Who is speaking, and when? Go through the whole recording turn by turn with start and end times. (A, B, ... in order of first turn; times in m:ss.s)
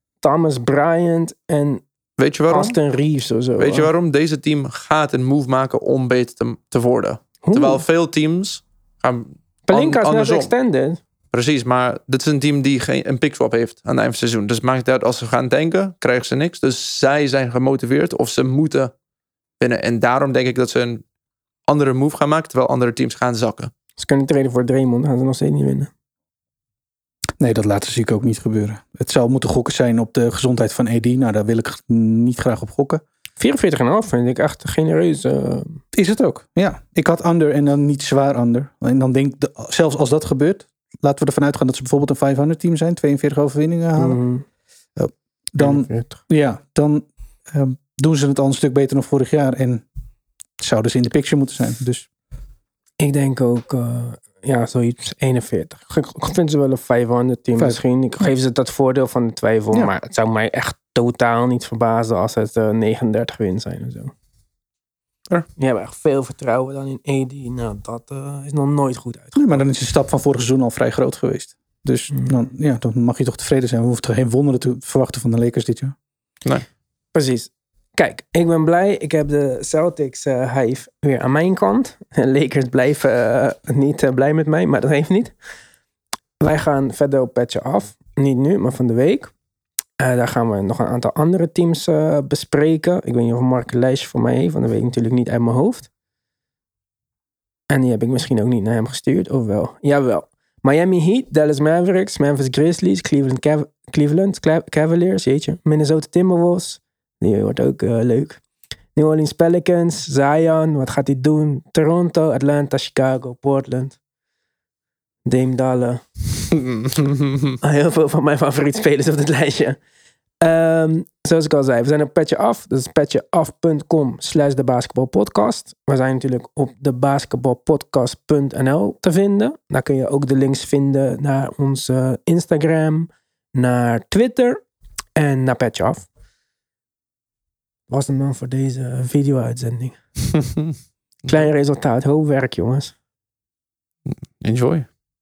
0:00.2-0:01.8 A
0:02.2-0:02.8 B
0:02.5-0:03.9 A
0:03.6-0:10.5 B
0:07.4-0:07.8 A
0:09.7-0:11.0 A
0:11.3-0:18.9 B
0:19.6-0:21.0 B
0:21.7-0:23.7 B
0:24.0-0:25.9 A
0:27.4-0:33.0 C
0:33.4-0:35.8 A
0:35.9-0:44.2 C
0:44.0-0:44.4 A
0:45.0-0:49.8 C
0:45.6-0:46.2 A
0:50.6-0:52.1 C
0:53.0-1:04.1 A
0:57.6-0:58.3 C
1:05.6-1:09.6 A
1:09.4-1:15.9 C
1:12.1-1:12.4 A
1:17.1-1:25.3 A
1:26.4-1:29.3 A
1:30.0-1:35.9 A
1:37.7-1:48.4 A
1:48.9-1:54.0 A
1:55.2-1:56.0 A
1:56.9-1:57.2 B
1:57.6-1:59.8 A
2:00.4-2:14.6 A
2:15.2-2:16.1 A
2:17.9-2:20.0 A
2:21.3-2:22.9 A
2:24.1-2:24.9 B